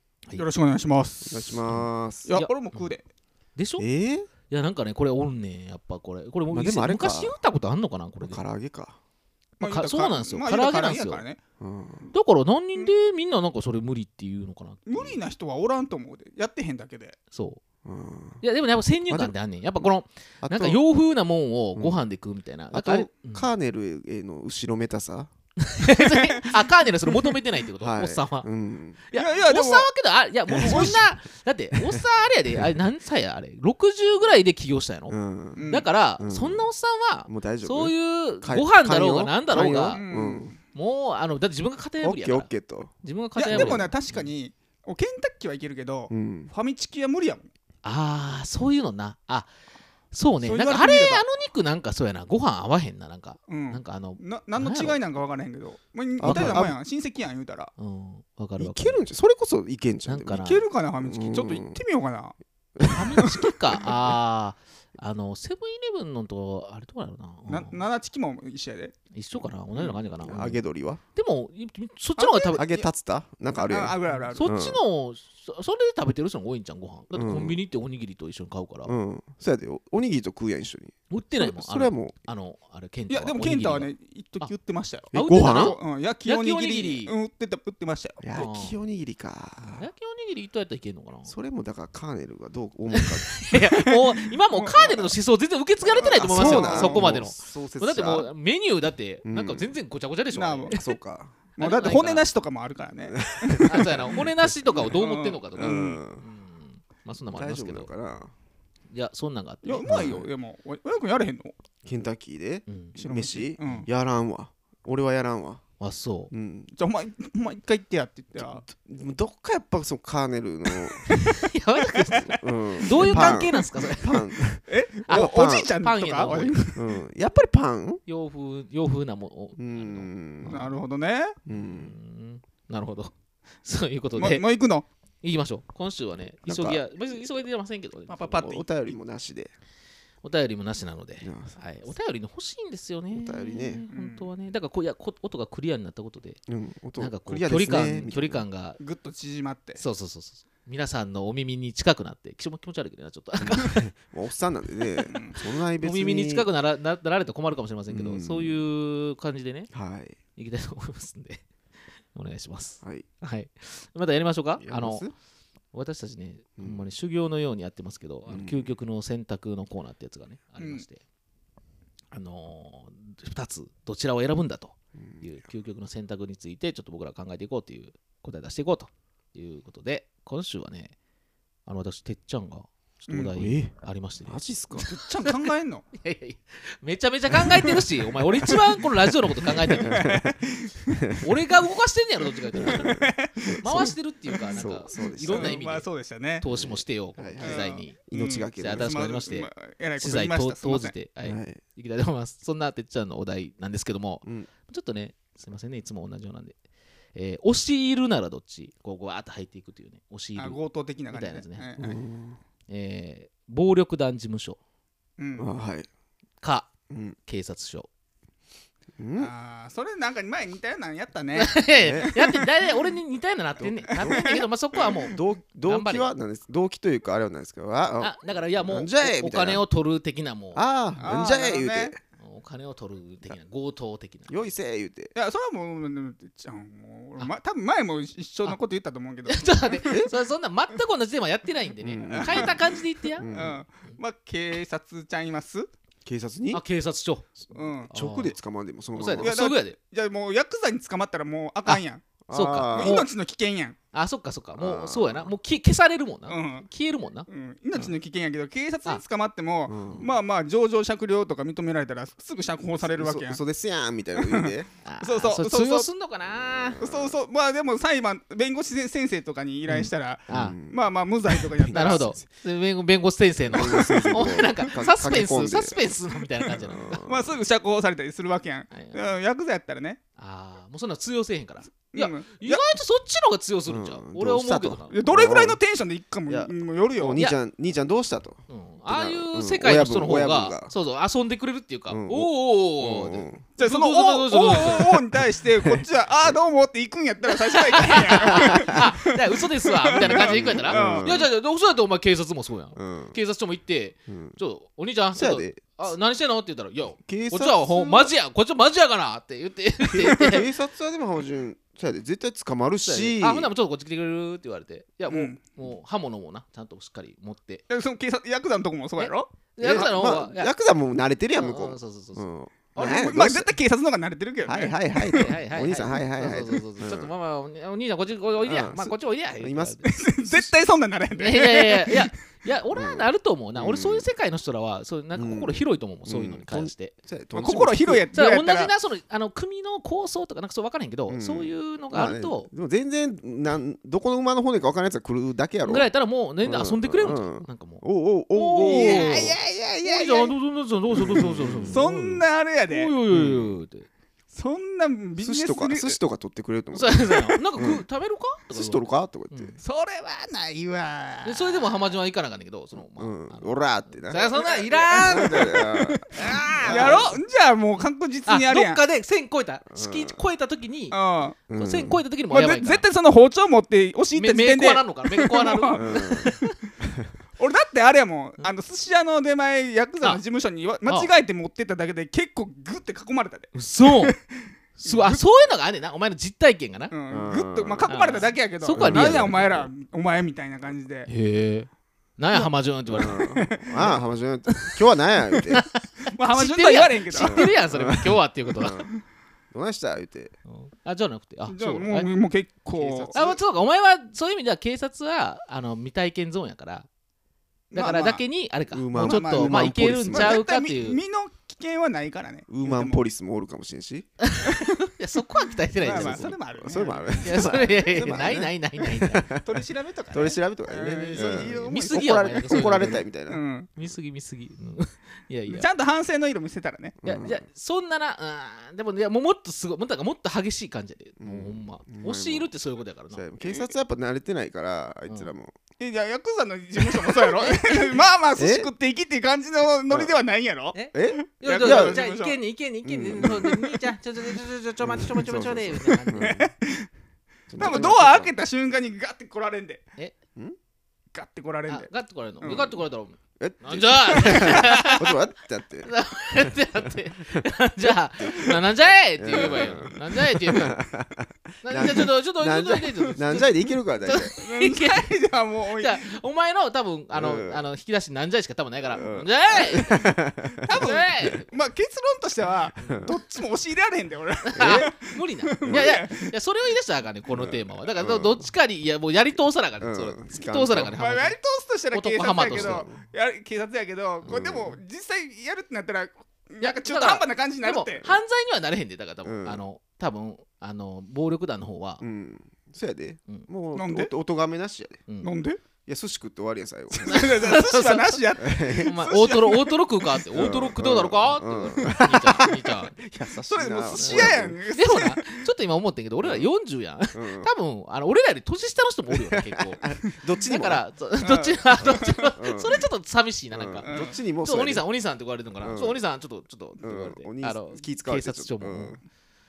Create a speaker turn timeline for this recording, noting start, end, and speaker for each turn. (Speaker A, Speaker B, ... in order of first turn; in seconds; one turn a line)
Speaker A: 0.4-1.6
Speaker B: 1.2-2.3
Speaker C: 1.7-3.0
Speaker A: 2.2-3.0
Speaker C: 3.6-3.9
Speaker B: 3.8-4.3
Speaker C: 4.5-8.4
Speaker B: 6.5-7.4
Speaker B: 8.2-9.0
Speaker A: 9.6-11.4
Speaker C: 9.6-11.2
Speaker B: 11.6-12.1
Speaker C: 12.1-15.2
Speaker A: 14.9-17.2
Speaker C: 17.3-17.6
Speaker B: 17.9-18.4
Speaker C: 18.4-23.5
Speaker B: 20.4-20.8
Speaker B: 21.8-22.0
Speaker B: 22.7-25.3
Speaker C: 25.7-28.5
Speaker A: 25.9-27.3
Speaker B: 27.8-29.0
Speaker C: 29.1-35.1
Speaker A: 29.1-29.9
Speaker B: 30.5-31.1
Speaker A: 30.6-30.9
Speaker B: 35.1-36.7
Speaker A: 35.6-35.9
Speaker C: 35.7-40.0
Speaker B: 37.3-40.5
Speaker A: 39.9-40.6
Speaker C: 40.7-42.5
Speaker B: 42.0-42.9
Speaker C: 43.0-44.3
Speaker A: 43.4-47.5
Speaker B: 43.5-43.9
Speaker B: 46.1-46.5
Speaker C: 47.8-49.5
Speaker C: 50.1-55.0
Speaker A: 50.4-51.2
Speaker A: 53.5-57.7
Speaker B: 56.2-56.8
Speaker C: 56.2-56.7
Speaker C: 57.8-59.0
Speaker B: 58.6-60.5
Speaker C: 60.1-60.7
Speaker A: 60.4-62.4
Speaker B: 61.0-61.8
Speaker B: 62.8-63.4
Speaker C: 62.8-67.9
Speaker A: 63.1-63.5
Speaker A: 67.5-69.0
Speaker C: 69.1-70.6
Speaker B: 70.2-71.0
Speaker C: 71.2-72.8
Speaker A: 72.2-72.9
Speaker B: 72.5-74.8
Speaker A: 73.5-74.6
Speaker C: 74.1-79.0
Speaker B: 77.1-77.6
Speaker B: 78.8-82.2
Speaker C: 81.1-84.5
Speaker A: 83.1-88.4
Speaker B: 85.1-85.8
Speaker C: 85.1-87.1
Speaker B: 88.2-89.9
Speaker C: 88.3-88.8
Speaker C: 89.6-91.3
Speaker B: 91.2-93.3
Speaker C: 93.0-100.8
Speaker A: 93.5-95.1
Speaker B: 95.8-98.3
Speaker A: 96.2-97.1
Speaker B: 99.2-99.7
Speaker A: 100.3-100.9
Speaker B: 100.7-101.5
Speaker A: 101.6-104.0
Speaker C: 101.6-102.3
Speaker B: 103.1-105.0
Speaker C: 103.7-107.9
Speaker A: 104.9-106.0
Speaker B: 105.6-106.3
Speaker B: 107.3-108.3
Speaker C: 108.9-110.3
Speaker A: 109.6-111.5
Speaker B: 109.8-110.2
Speaker B: 111.8-115.6
Speaker C: 112.7-113.0
Speaker A: 113.0-113.9
Speaker C: 113.6-113.9
Speaker C: 115.8-116.3
Speaker B: 116.3-116.7
Speaker A: 116.8-118.6
Speaker B: 118.4-121.1
Speaker C: 121.1-124.3
Speaker A: 121.9-122.3
Speaker B: 122.3-125.7
Speaker A: 122.9-123.5
Speaker A: 124.7-126.9
Speaker C: 125.1-126.7
Speaker B: 126.8-128.0
Speaker C: 128.1-130.8
Speaker B: 129.6-130.6
Speaker A: 130.5-131.4
Speaker B: 131.5-131.9
Speaker C: 131.5-133.1
Speaker C: 133.7-134.4
Speaker A: 134.1-134.8
Speaker C: 135.2-138.5
Speaker B: 136.4-136.8
Speaker A: 138.1-138.8
Speaker B: 138.2-139.5
Speaker C: 140.2-146.4
Speaker B: 141.2-141.6
Speaker B: 143.1-143.8
Speaker A: 143.9-144.3
Speaker B: 146.5-148.5
Speaker C: 147.0-148.8
Speaker A: 148.8-149.8
Speaker C: 149.8-153.7
Speaker B: 153.5-156.5
Speaker A: 155.1-155.4
Speaker C: 155.7-159.7
Speaker B: 157.9-158.6
Speaker B: 159.7-160.2
Speaker C: 160.4-161.4
Speaker C: 162.1-165.1
Speaker B: 164.6-165.1
Speaker C: 165.7-171.0
Speaker B: 166.6-166.9
Speaker B: 168.3-168.8
Speaker A: 170.6-170.9
Speaker C: 172.1-180.9
Speaker B: 174.9-175.4
Speaker C: 181.7-185.4
Speaker B: 183.2-183.7
Speaker B: 184.2-184.9
Speaker A: 184.9-185.9
Speaker C: 185.9-190.0
Speaker A: 187.4-187.7
Speaker B: 189.5-190.4
Speaker A: 189.8-191.0
Speaker B: 190.9-191.3
Speaker C: 191.2-193.1
Speaker B: 192.5-195.6
Speaker A: 192.6-193.6
Speaker C: 193.6-195.9
Speaker A: 194.3-194.6
Speaker A: 195.3-196.5
Speaker C: 196.4-198.0
Speaker B: 196.4-199.1
Speaker A: 197.4-200.9
Speaker C: 198.6-206.6
Speaker B: 201.2-201.6
Speaker B: 204.2-204.5
Speaker C: 207.2-210.6
Speaker A: 210.4-212.0
Speaker C: 211.1-211.9
Speaker B: 211.8-212.4
Speaker C: 212.7-214.6
Speaker A: 215.2-215.5
Speaker B: 215.4-215.9
Speaker C: 216.4-216.7
Speaker B: 216.9-217.2
Speaker C: 217.3-217.9
Speaker B: 219.0-219.3
Speaker A: 219.2-222.5
Speaker C: 221.3-226.1
Speaker B: 221.8-222.2
Speaker B: 223.6-229.6
Speaker A: 223.9-225.2
Speaker C: 228.0-230.6
Speaker B: 230.5-232.0
Speaker A: 231.0-231.9
Speaker C: 232.2-234.5
Speaker B: 234.3-235.1
Speaker A: 235.2-240.1
Speaker C: 239.3-243.3
Speaker B: 241.8-242.6
Speaker A: 242.0-242.7
Speaker B: 243.2-243.6
Speaker A: 243.3-245.7
Speaker B: 246.1-246.6
Speaker C: 246.5-248.4
Speaker B: 247.4-249.4
Speaker A: 247.5-247.9
Speaker C: 248.9-249.8
Speaker A: 249.2-253.8
Speaker C: 251.7-253.1
Speaker B: 252.2-253.0
Speaker C: 253.9-257.9
Speaker B: 254.6-255.3
Speaker A: 256.3-256.7
Speaker A: 257.3-263.4
Speaker B: 259.7-260.1
Speaker B: 262.8-264.7
Speaker A: 264.2-265.9
Speaker C: 264.8-266.8
Speaker B: 266.8-267.2
Speaker A: 266.8-272.1
Speaker C: 269.7-270.6
Speaker B: 270.3-272.2
Speaker C: 271.7-277.0
Speaker B: 273.4-275.8
Speaker A: 273.9-274.3
Speaker B: 276.5-277.4
Speaker A: 277.0-280.0
Speaker C: 278.7-279.1
Speaker C: 280.2-285.0
Speaker A: 281.9-282.7
Speaker B: 283.7-285.6
Speaker A: 284.9-287.2
Speaker B: 286.3-290.7
Speaker C: 288.5-295.0
Speaker B: 291.9-293.4
Speaker A: 293.6-301.3
Speaker B: 295.2-295.9
Speaker C: 297.2-310.5
Speaker B: 298.1-298.8
Speaker B: 300.0-301.3
Speaker B: 302.8-303.2
Speaker B: 304.1-304.4
Speaker B: 305.1-305.9
Speaker B: 307.0-308.1
Speaker B: 309.9-313.5
Speaker C: 312.8-317.6
Speaker A: 315.1-315.4
Speaker A: 317.7-319.9
Speaker C: 319.0-320.5
Speaker B: 319.6-323.5
Speaker C: 321.4-323.1
Speaker A: 322.8-325.4
Speaker B: 324.4-327.1
Speaker C: 325.0-330.1
Speaker B: 328.4-330.5
Speaker A: 329.8-332.1
Speaker C: 331.1-336.9
Speaker B: 332.7-334.1
Speaker B: 335.1-338.1
Speaker A: 337.4-338.7
Speaker C: 338.1-342.5
Speaker B: 341.1-349.4
Speaker C: 345.6-347.8
Speaker C: 348.3-353.9
Speaker A: 348.6-350.4
Speaker B: 350.9-351.8
Speaker A: 351.7-352.9
Speaker B: 353.1-353.6
Speaker A: 354.3-356.0
Speaker B: 355.2-357.9
Speaker C: 356.7-359.6
Speaker B: 358.5-359.6
Speaker A: 359.6-361.9
Speaker C: 361.2-367.2
Speaker B: 362.8-364.3
Speaker A: 364.1-366.0
Speaker B: 365.0-367.2
Speaker A: 366.6-368.8
Speaker C: 368.3-371.0
Speaker B: 369.7-370.2
Speaker A: 370.9-371.4
Speaker B: 371.5-372.0
Speaker C: 371.5-372.9
Speaker A: 372.3-376.4
Speaker C: 374.1-376.6
Speaker B: 375.8-376.3
Speaker A: 377.4-385.2
Speaker C: 380.9-381.1
Speaker C: 383.5-384.2
Speaker C: 384.8-386.9
Speaker A: 386.9-391.1
Speaker B: 387.1-388.1
Speaker C: 387.9-389.7
Speaker B: 388.7-389.4
Speaker C: 391.1-393.2
Speaker B: 392.3-395.6
Speaker A: 393.1-394.0
Speaker C: 395.5-398.8
Speaker A: 396.1-397.5
Speaker B: 397.1-398.9
Speaker B: 399.5-400.3
Speaker C: 400.5-402.1
Speaker A: 401.5-403.3
Speaker B: 402.7-403.4
Speaker C: 403.1-406.9
Speaker A: 407.7-408.2
Speaker C: 407.7-411.0
Speaker B: 408.7-410.4
Speaker A: 408.9-413.1
Speaker B: 412.5-414.1
Speaker C: 414.2-416.4
Speaker A: 415.8-418.0
Speaker B: 415.9-423.4
Speaker C: 417.2-419.3
Speaker A: 419.4-423.7
Speaker C: 421.1-423.1
Speaker C: 423.8-425.7
Speaker A: 425.5-427.0
Speaker B: 427.0-427.4
Speaker C: 427.0-433.3
Speaker B: 431.2-432.5
Speaker B: 433.1-435.5
Speaker A: 433.4-433.7
Speaker A: 435.8-442.4
Speaker C: 437.1-437.9
Speaker B: 438.4-438.7
Speaker C: 440.7-446.4
Speaker B: 440.9-442.1
Speaker B: 442.9-443.7
Speaker A: 443.3-443.6
Speaker B: 444.8-446.5
Speaker A: 446.1-446.9
Speaker B: 447.5-448.3
Speaker A: 447.6-449.8
Speaker A: 451.1-452.8
Speaker C: 451.7-455.2
Speaker B: 453.4-458.6
Speaker A: 454.3-454.8
Speaker C: 455.8-460.8
Speaker B: 459.2-464.3
Speaker C: 461.6-465.1
Speaker A: 464.3-466.1
Speaker C: 465.7-470.1
Speaker B: 467.1-467.6
Speaker B: 468.9-471.3
Speaker A: 470.7-476.3
Speaker C: 470.7-471.5
Speaker C: 472.8-473.1
Speaker B: 472.8-473.1
Speaker C: 474.5-481.4
Speaker B: 474.6-474.9
Speaker B: 475.6-475.9
Speaker B: 477.3-478.5
Speaker B: 479.8-481.0
Speaker A: 480.9-488.1
Speaker C: 481.9-482.9
Speaker B: 482.5-483.0
Speaker B: 484.3-484.8
Speaker C: 486.6-492.0
Speaker B: 489.2-489.6
Speaker B: 492.0-495.0
Speaker A: 493.7-494.1
Speaker C: 495.1-495.3
Speaker A: 495.2-495.6
Speaker B: 495.9-497.4
Speaker A: 496.9-500.1
Speaker C: 497.1-503.0
Speaker B: 498.4-498.9
Speaker B: 500.3-504.6
Speaker A: 502.0-502.5
Speaker A: 503.5-505.5
Speaker C: 503.6-509.8
Speaker B: 506.2-506.5
Speaker B: 507.1-507.5
Speaker B: 509.1-510.9
Speaker C: 510.4-519.0
Speaker A: 511.2-512.4
Speaker B: 512.4-512.8
Speaker B: 513.5-514.9
Speaker A: 513.8-514.2
Speaker B: 515.6-516.1
Speaker B: 516.8-519.0